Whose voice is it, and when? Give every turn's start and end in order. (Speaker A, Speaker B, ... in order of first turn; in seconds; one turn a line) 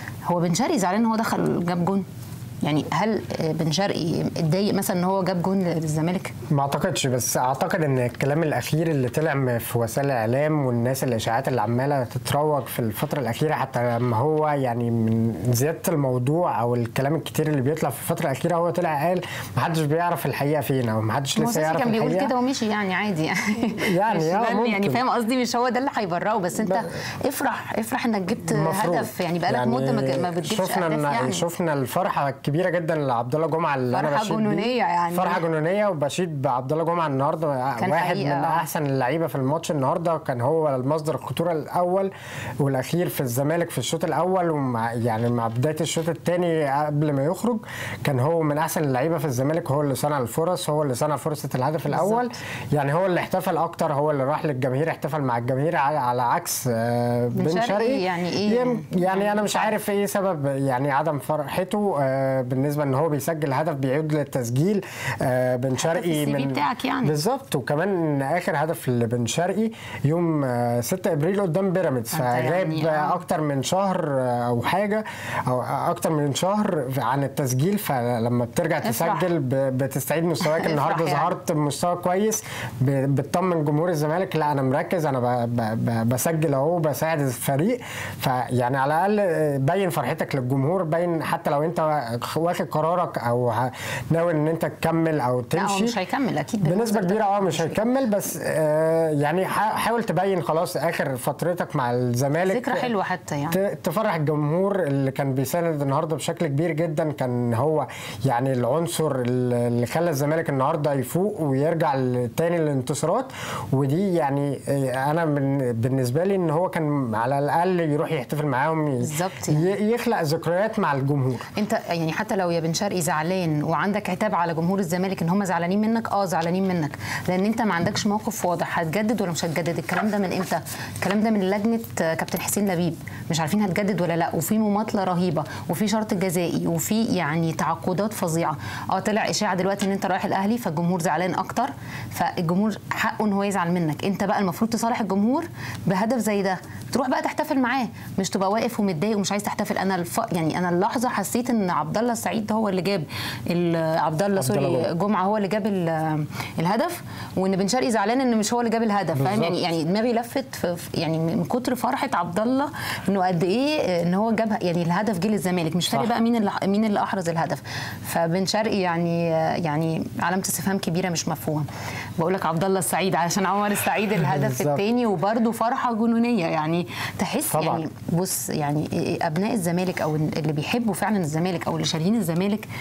Speaker A: 0.3-2.0
Speaker A: 2.6-6.3
Speaker B: 6.5-22.3
Speaker A: 21.4-31.4
Speaker B: 23.8-25.0
Speaker B: 26.6-26.9
Speaker B: 28.5-95.9
Speaker A: 33.9-35.4
Speaker A: 37.8-38.7
Speaker A: 51.9-52.3
Speaker A: 57.4-59.7
Speaker A: 65.8-67.2
Speaker A: 72.1-73.2
Speaker A: 78.8-79.3
Speaker A: 80.4-81.3
Speaker A: 95.5-97.9
Speaker B: 96.6-102.9
Speaker A: 102.5-103.6
Speaker B: 103.5-121.5
Speaker A: 119.0-119.7
Speaker A: 121.5-182.7
Speaker B: 154.3-154.9
Speaker B: 159.1-159.6
Speaker B: 174.2-174.8
Speaker B: 177.5-177.8